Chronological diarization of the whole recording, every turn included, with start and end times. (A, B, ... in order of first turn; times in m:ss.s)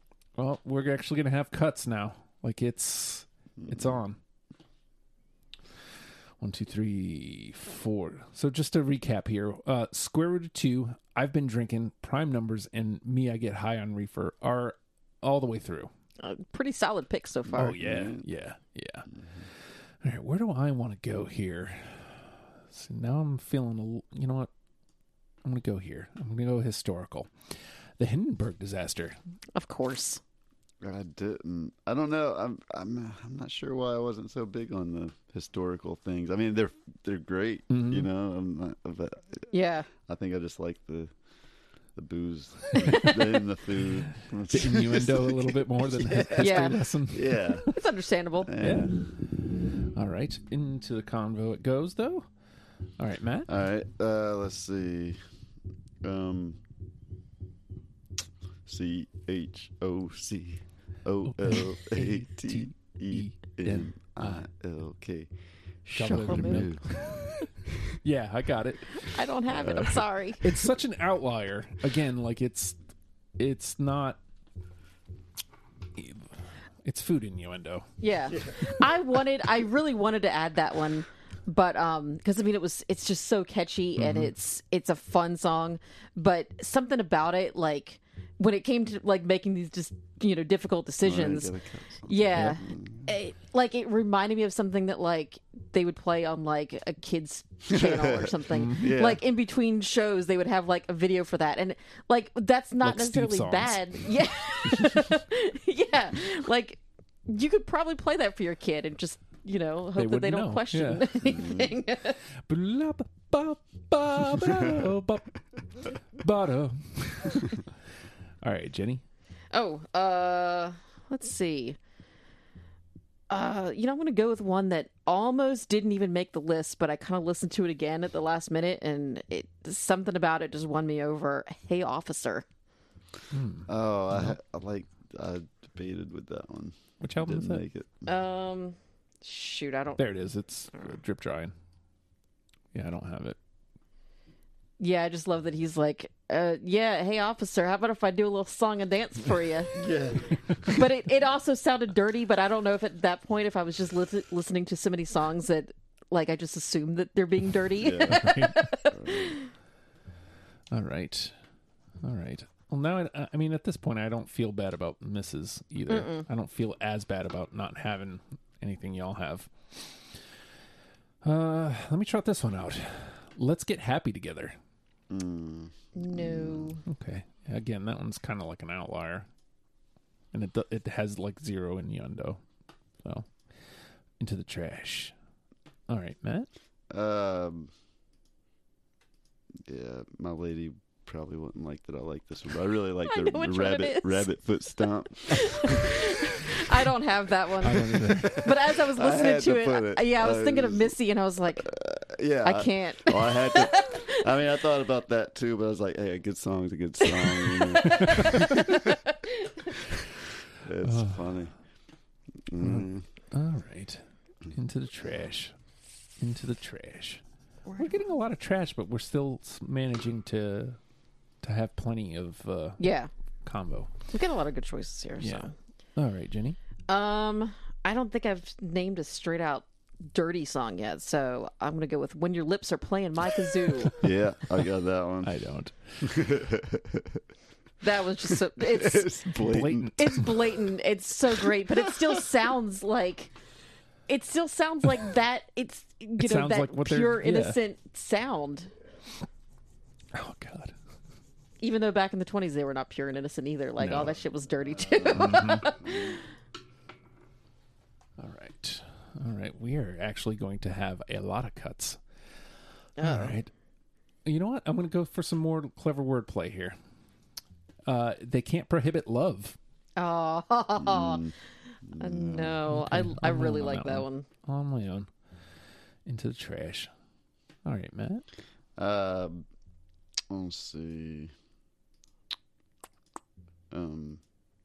0:00.4-0:04.2 A
0:03.6-0:04.0 B
0:06.4-0:15.9 A
0:16.2-0:17.8 C
0:17.5-0:19.1 A
0:17.7-0:18.2 B
0:20.0-0:24.5 A
0:25.4-0:27.3 A
0:28.0-0:29.2 A
0:29.5-0:30.2 C
0:30.8-0:41.1 B
0:37.7-0:38.1 A
0:39.5-0:39.9 C
0:41.9-0:47.7 B
0:42.7-0:43.4 A
0:44.5-0:47.7 A
0:46.4-0:46.8 C
0:47.6-0:48.5 C
0:48.5-0:48.9 B
0:48.6-0:49.0 A
0:49.9-0:52.2 A
0:53.0-0:53.5 A
0:53.5-0:55.2 B
0:56.0-0:56.6 B
0:58.6-1:05.3 B
1:01.2-1:04.4 A
1:05.8-1:06.8 B
1:05.9-1:09.9 A
1:06.0-1:06.7 C
1:07.7-1:08.0 B
1:09.0-1:10.4 C
1:09.5-1:10.0 B
1:10.4-1:12.8 A
1:13.4-1:14.2 A
1:16.0-1:16.2 A
1:16.8-1:17.9 A
1:18.0-1:31.5 C
1:24.0-1:24.3 A
1:31.0-1:33.1 B
1:32.1-1:52.2 C
1:37.7-1:39.2 B
1:38.5-1:39.0 A
1:42.8-1:43.8 A
1:50.0-1:51.1 A
1:51.3-1:51.8 B
1:52.4-1:57.6 A
1:58.4-1:59.0 A
1:59.5-2:01.8 C
2:03.3-2:12.4 C
2:13.3-2:14.4 A
2:13.7-2:18.0 B
2:17.0-2:17.6 A
2:18.0-2:20.0 C
2:20.0-2:21.5 A
2:22.7-2:23.4 A
2:24.8-2:29.7 C
2:29.7-2:30.8 B
2:30.7-2:39.5 C
2:37.8-2:38.3 B
2:38.1-2:38.7 A
2:38.8-2:39.4 B
2:40.7-2:41.3 A
2:42.0-2:50.0 A
2:45.9-2:46.2 C
2:51.2-2:54.6 A
2:55.1-2:56.8 B
2:55.9-2:56.8 C
2:56.8-2:59.3 A
3:00.3-3:02.4 A
3:04.2-3:05.1 A
3:05.9-3:06.5 A
3:06.9-3:07.7 B
3:09.6-3:16.5 B
3:13.0-3:14.3 C
3:15.2-3:21.7 C
3:17.6-3:18.5 A
3:18.0-3:20.9 B
3:21.6-3:28.9 B
3:22.4-3:24.2 C
3:27.0-3:29.7 C
3:27.8-3:28.6 A
3:30.6-3:31.5 B
3:30.8-3:31.4 A
3:32.5-3:33.0 B
3:32.6-3:35.5 A
3:36.2-3:37.2 A
3:37.7-3:37.9 C
3:37.8-3:40.8 A
3:41.4-3:42.8 A
3:42.8-3:43.1 C
3:43.4-3:43.9 A
3:44.1-3:45.5 C
3:45.2-3:46.6 A
3:46.9-3:54.0 C
3:53.9-3:55.3 B
3:55.2-3:56.1 A
3:56.0-3:57.2 B
3:57.8-3:59.2 C
3:58.3-4:00.3 B
3:59.4-4:00.4 A
3:59.8-4:03.3 C
4:04.1-4:08.7 C
4:06.2-4:07.6 A
4:10.1-4:10.7 A
4:11.6-4:16.2 C
4:13.8-4:14.1 A
4:14.7-4:16.2 B
4:15.1-4:15.8 A
4:18.2-4:22.0 A
4:23.0-4:23.4 C
4:23.0-4:23.5 A
4:24.2-4:26.8 A
4:27.8-4:29.6 A
4:30.0-4:31.2 C
4:30.8-4:31.3 B
4:31.8-4:32.6 B
4:32.0-4:34.2 C
4:32.7-4:35.1 A
4:36.0-4:36.9 A
4:37.6-4:38.2 A
4:38.8-4:39.4 B
4:40.3-4:41.3 B
4:43.7-4:44.2 B